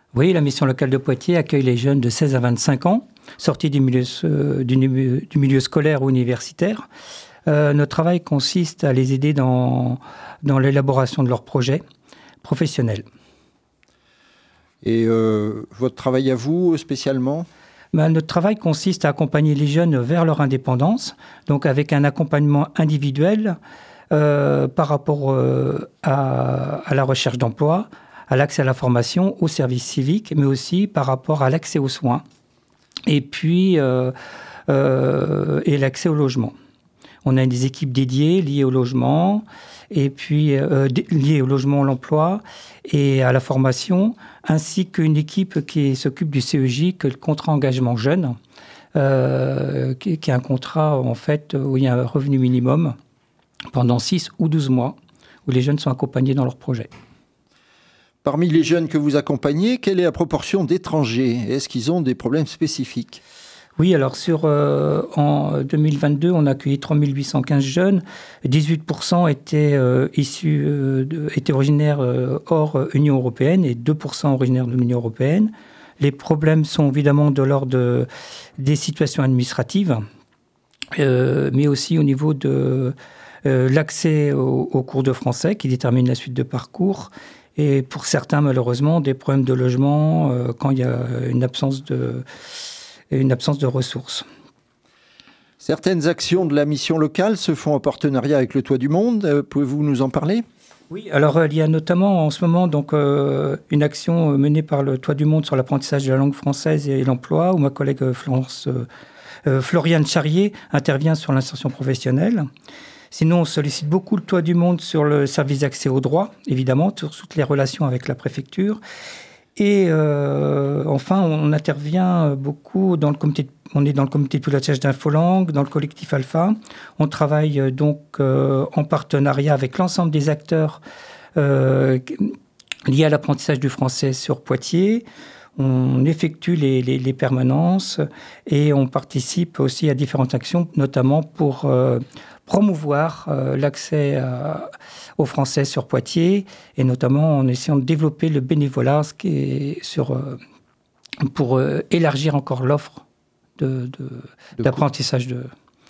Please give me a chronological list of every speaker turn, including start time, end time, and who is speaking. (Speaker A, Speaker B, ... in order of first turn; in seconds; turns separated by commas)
Speaker A: 0.1-6.8, Speaker A: 7.5-11.8, Speaker A: 12.4-13.1, Speaker B: 14.8-17.5, Speaker A: 17.9-23.6, Speaker A: 24.1-32.2, Speaker A: 33.1-34.1, Speaker A: 34.7-36.5, Speaker A: 37.2-48.4, Speaker A: 49.0-52.9, Speaker A: 53.7-56.9, Speaker B: 58.2-63.2, Speaker A: 63.8-80.0, Speaker A: 80.9-92.2, Speaker A: 93.1-94.3, Speaker B: 95.6-100.5, Speaker A: 100.9-108.9, Speaker A: 109.5-112.5, Speaker A: 113.1-118.8, Speaker A: 119.6-130.8, Speaker A: 131.4-132.3, Speaker A: 132.9-135.1, Speaker A: 135.6-150.4, Speaker A: 151.2-153.0, Speaker A: 153.6-155.5